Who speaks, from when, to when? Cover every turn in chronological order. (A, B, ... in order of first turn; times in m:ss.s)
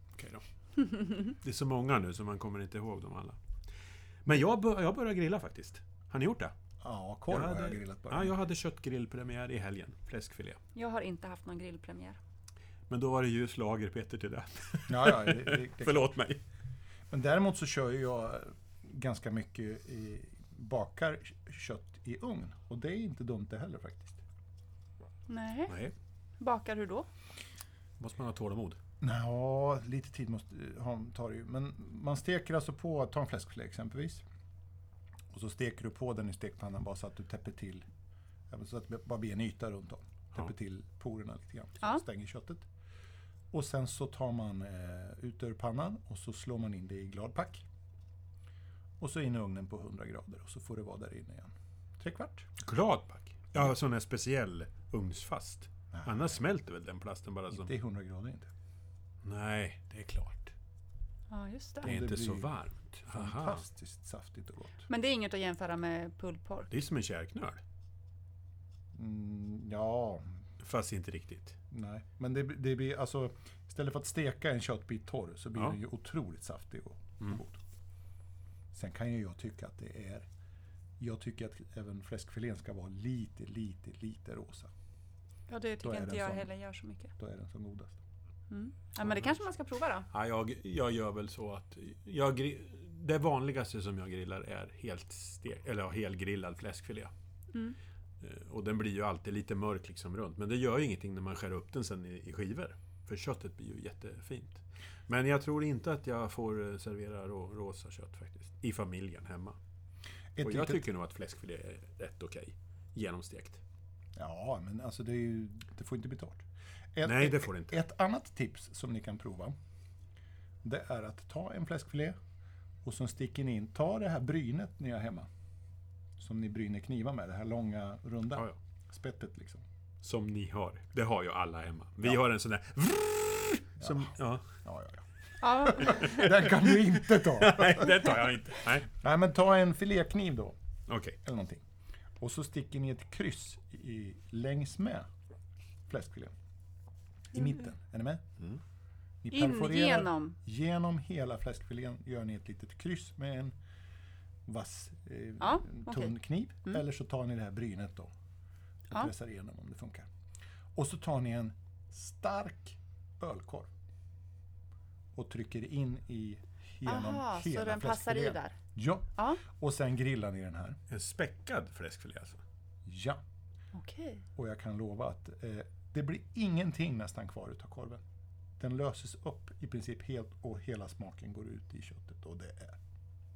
0:00.2-0:03.4 A
0:04.2-0:06.5 A
0:06.8-0:08.4 B
0:07.3-0:10.6 A
0:10.8-0:12.2 C
0:12.9-0:16.4 A
0:14.9-0:16.2 B
0:17.1-0:24.2 B
0:25.3-0:25.8 C
0:25.7-0:25.9 A
0:26.4-0:27.1 C
0:28.0-0:28.8 A
0:29.0-0:34.2 B
0:35.3-0:37.9 B
0:38.5-0:42.6 B
0:43.5-0:47.6 B
0:49.0-0:52.5 B
0:52.6-0:57.7 A
0:55.9-0:56.4 B
0:57.5-0:58.5 B
0:59.2-1:00.5 A
1:01.3-1:01.9 C
1:01.8-1:02.5 B
1:01.8-1:03.6 A
1:03.1-1:04.8 B
1:04.9-1:06.7 C
1:06.7-1:07.6 A
1:09.0-1:10.3 B
1:10.6-1:11.6 A
1:11.7-1:17.6 B
1:18.7-1:20.3 B
1:21.0-1:24.7 B
1:25.5-1:27.1 C
1:25.8-1:26.5 B
1:27.2-1:28.0 B
1:28.5-1:30.1 C
1:30.1-1:37.1 A
1:38.2-1:49.6 A
1:50.4-1:50.8 B
1:50.4-1:53.6 A
1:54.2-1:56.4 B
1:57.0-1:59.6 B
1:57.0-1:57.8 A
2:00.6-2:02.2 B
2:02.8-2:05.3 B
2:06.2-2:09.6 B
2:10.0-2:14.4 A
2:13.8-2:18.1 B
2:15.4-2:16.3 C
2:16.1-2:18.9 A
2:18.9-2:20.6 B
2:20.9-2:21.2 A
2:21.2-2:21.6 B
2:22.2-2:25.1 B
2:25.9-2:26.3 B
2:27.3-2:28.2 B
2:29.2-2:33.6 B
2:29.3-2:30.4 C
2:34.5-2:38.1 B
2:35.4-2:36.2 C
2:38.9-2:40.1 B
2:40.8-2:43.7 B
2:45.2-2:50.8 B
2:46.8-2:48.6 C
2:49.2-2:49.4 C
2:50.9-2:52.4 A
2:52.9-2:53.2 B
2:53.7-2:54.2 C
2:54.4-2:58.0 B
2:58.6-3:02.8 B